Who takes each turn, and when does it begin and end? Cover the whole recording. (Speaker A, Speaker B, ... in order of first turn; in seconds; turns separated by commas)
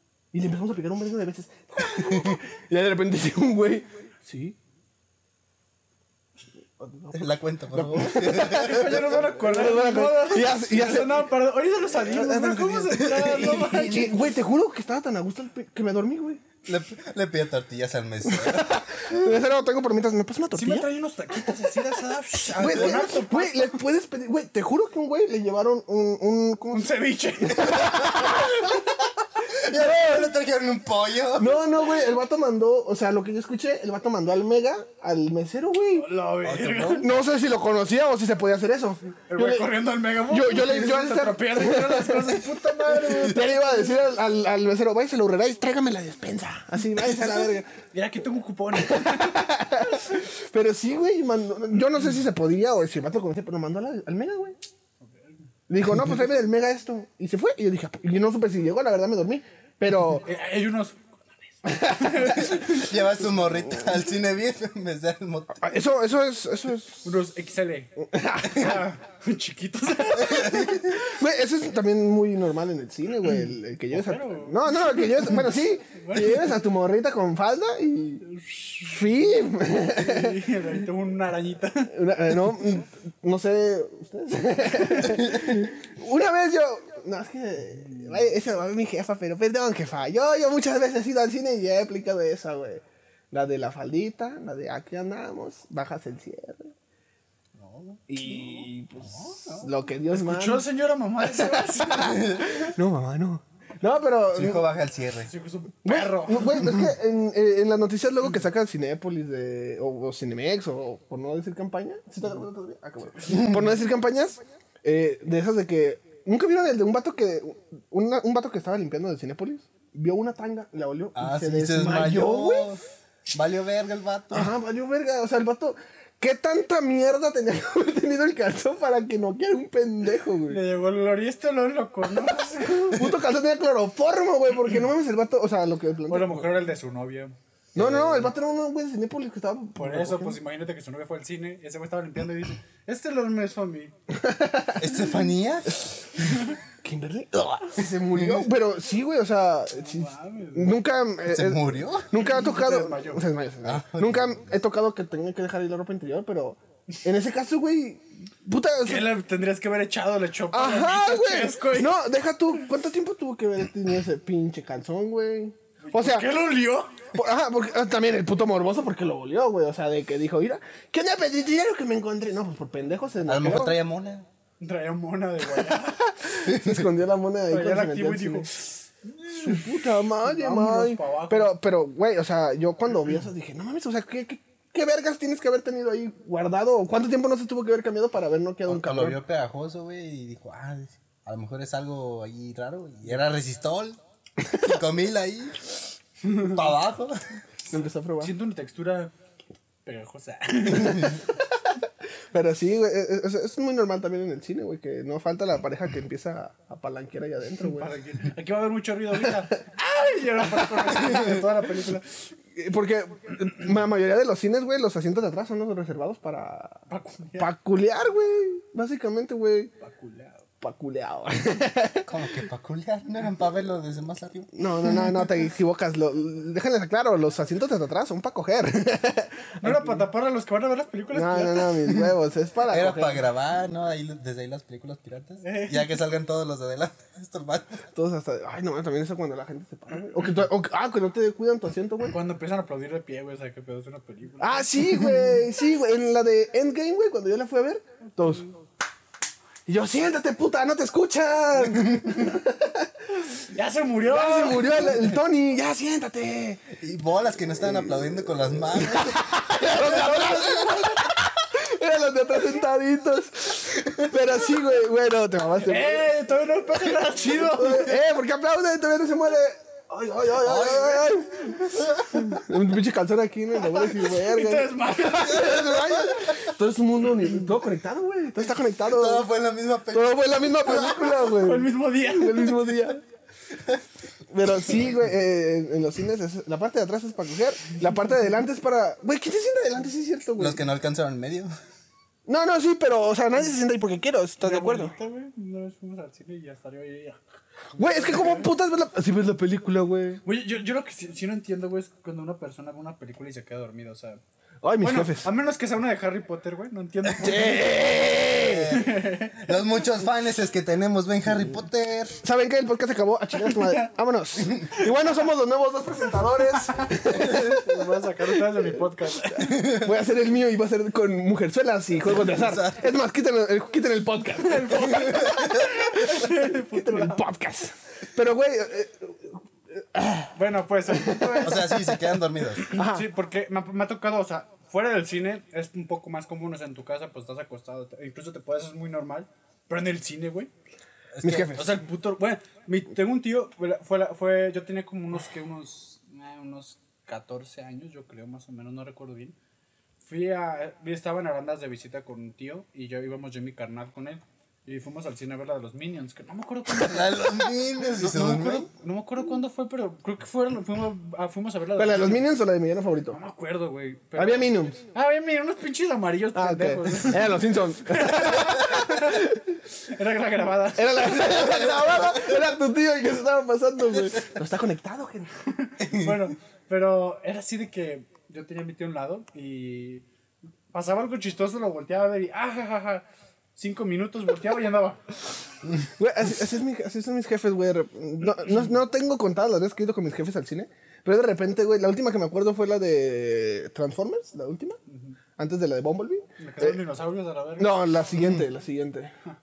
Speaker A: 0.3-4.6, Speaker A: 6.8-11.3, Speaker B: 7.1-9.3, Speaker C: 8.3-14.2, Speaker A: 11.9-16.4, Speaker B: 12.9-14.0, Speaker B: 16.6-19.2, Speaker A: 18.2-20.9, Speaker C: 20.5-23.8, Speaker A: 22.5-26.9, Speaker C: 26.7-28.3, Speaker A: 27.4-28.6, Speaker B: 27.7-28.3, Speaker B: 29.6-31.6, Speaker A: 29.7-30.1, Speaker A: 31.4-36.1, Speaker C: 35.9-37.1, Speaker B: 36.4-37.2, Speaker A: 37.0-39.7, Speaker C: 39.3-44.0, Speaker A: 40.2-47.7, Speaker C: 47.9-49.6, Speaker A: 48.7-54.6, Speaker C: 55.1-55.4, Speaker A: 55.7-60.2, Speaker C: 60.1-62.9, Speaker A: 61.6-62.8, Speaker B: 62.2-65.6, Speaker A: 65.6-67.1, Speaker C: 67.0-70.8, Speaker A: 68.0-68.9, Speaker B: 70.2-70.9, Speaker A: 70.7-78.2, Speaker C: 73.9-76.6, Speaker C: 78.2-79.0, Speaker A: 78.8-80.5, Speaker C: 79.8-81.9, Speaker A: 81.9-96.7, Speaker C: 87.8-88.2, Speaker B: 97.6-98.0, Speaker A: 98.1-100.7, Speaker B: 99.0-99.7, Speaker C: 100.1-102.2, Speaker A: 101.3-104.6, Speaker B: 102.0-102.6, Speaker B: 104.3-105.3, Speaker C: 105.3-106.6, Speaker A: 105.8-122.8, Speaker B: 113.3-113.6, Speaker B: 121.2-124.5, Speaker A: 124.3-130.6, Speaker C: 130.5-133.0, Speaker A: 132.9-136.5, Speaker C: 136.1-137.3, Speaker B: 137.8-138.3, Speaker A: 137.8-140.4, Speaker C: 139.8-143.9, Speaker A: 144.1-145.0, Speaker B: 144.8-145.8, Speaker A: 146.8-159.1, Speaker B: 148.1-148.5, Speaker C: 149.7-150.8, Speaker B: 151.2-152.1, Speaker C: 152.1-153.2, Speaker B: 153.6-154.5, Speaker C: 158.8-162.0, Speaker A: 160.5-166.3, Speaker C: 165.8-166.9, Speaker A: 167.1-173.8, Speaker B: 173.2-174.2, Speaker C: 174.6-176.1, Speaker A: 175.6-178.5, Speaker B: 176.5-176.9, Speaker C: 177.5-179.7, Speaker A: 179.4-189.2, Speaker C: 180.2-181.5, Speaker B: 188.7-194.0, Speaker B: 194.5-195.7, Speaker B: 196.4-197.2, Speaker A: 197.7-198.3, Speaker C: 198.2-199.1, Speaker C: 199.8-201.2, Speaker A: 202.3-207.9, Speaker C: 207.6-212.2, Speaker A: 210.5-210.9, Speaker B: 211.1-211.4, Speaker A: 212.5-216.8, Speaker C: 216.9-217.5, Speaker A: 217.4-219.7, Speaker C: 219.8-220.5, Speaker A: 220.6-222.1, Speaker B: 222.1-224.5, Speaker A: 224.5-230.1, Speaker C: 229.6-231.8, Speaker A: 231.1-233.2, Speaker B: 232.7-237.8, Speaker C: 235.4-235.9, Speaker A: 237.9-242.2, Speaker C: 242.1-244.9, Speaker A: 244.4-248.5, Speaker A: 249.7-252.9, Speaker C: 253.4-255.1, Speaker A: 254.0-256.7, Speaker B: 256.8-260.7, Speaker A: 257.6-266.1, Speaker C: 265.6-268.0, Speaker A: 267.4-279.3, Speaker B: 270.4-272.2, Speaker C: 273.7-275.6, Speaker B: 278.8-281.2, Speaker A: 279.9-283.0, Speaker C: 281.3-282.8, Speaker A: 284.3-290.6, Speaker B: 290.4-291.5, Speaker A: 292.2-294.9, Speaker C: 294.4-297.2, Speaker C: 297.8-298.5, Speaker A: 297.8-300.2, Speaker C: 300.2-304.2, Speaker A: 304.6-305.3, Speaker C: 304.8-307.8, Speaker A: 307.2-308.8, Speaker B: 308.3-312.2, Speaker C: 308.7-309.4, Speaker A: 312.2-318.7, Speaker C: 313.5-313.9, Speaker C: 317.0-319.5, Speaker B: 319.4-319.9, Speaker A: 319.4-330.3, Speaker B: 322.2-322.8, Speaker C: 324.4-327.2, Speaker C: 330.3-331.7, Speaker A: 330.9-332.0, Speaker B: 331.4-332.6, Speaker C: 332.6-340.5, Speaker A: 332.7-333.1, Speaker B: 341.1-341.6, Speaker A: 341.2-341.8, Speaker C: 341.6-349.3, Speaker C: 350.0-362.2, Speaker B: 356.7-358.7, Speaker A: 361.8-363.2, Speaker C: 363.1-371.4, Speaker A: 364.2-364.8, Speaker A: 366.3-369.6, Speaker A: 370.8-375.3, Speaker B: 371.4-372.0, Speaker C: 375.4-380.0, Speaker B: 375.8-376.2, Speaker C: 380.7-385.2, Speaker A: 386.0-394.8, Speaker C: 394.9-395.2, Speaker A: 395.4-396.8, Speaker C: 396.4-398.4, Speaker A: 397.6-399.1